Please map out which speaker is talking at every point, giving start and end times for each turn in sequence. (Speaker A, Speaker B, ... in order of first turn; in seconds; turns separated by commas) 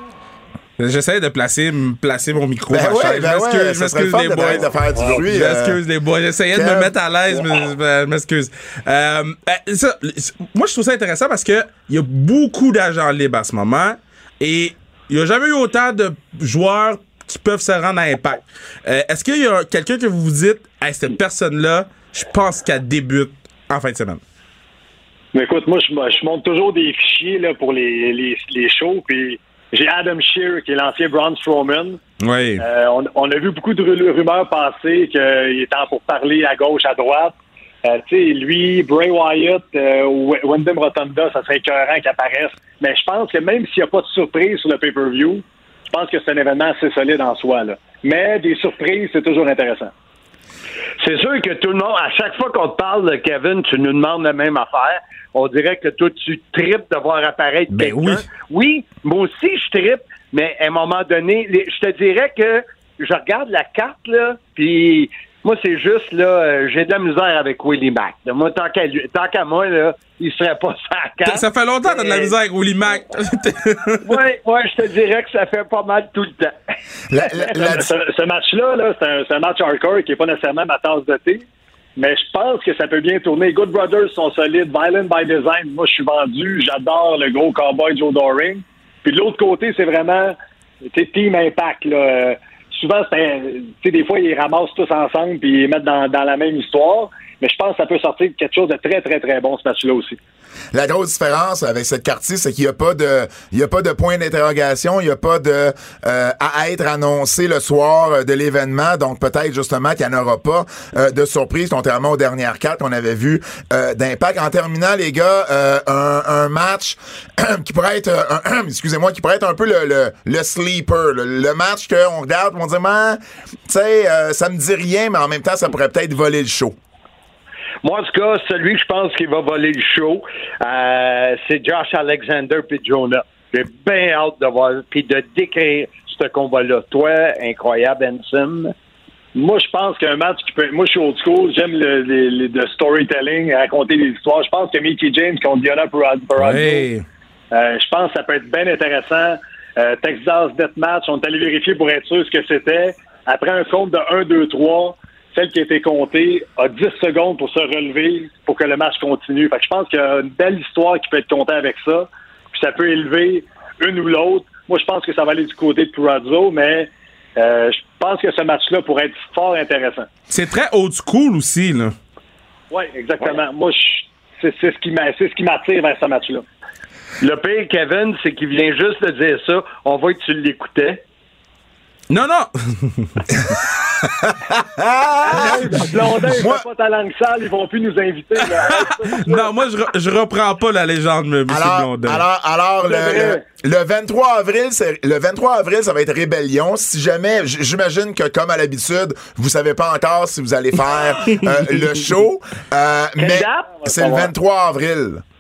Speaker A: 0.8-24.2, Speaker B: 2.7-5.8, Speaker B: 6.5-6.9, Speaker C: 25.3-32.0, Speaker A: 32.2-32.6, Speaker C: 32.6-49.9, Speaker D: 51.0-72.3, Speaker A: 57.7-58.2, Speaker A: 71.2-74.2, Speaker D: 74.0-76.5, Speaker B: 77.1-77.9, Speaker C: 77.4-81.4, Speaker C: 82.0-90.4, Speaker C: 90.9-100.2, Speaker B: 100.7-126.8, Speaker D: 127.8-138.7, Speaker C: 139.3-146.9, Speaker A: 146.4-147.0, Speaker C: 147.5-170.1, Speaker A: 170.3-171.9, Speaker C: 172.7-176.4, Speaker D: 177.2-181.0, Speaker A: 182.1-183.3, Speaker B: 183.3-186.6, Speaker C: 185.2-189.5, Speaker A: 188.6-192.2, Speaker B: 191.5-205.2, Speaker C: 192.9-193.4, Speaker D: 203.2-204.3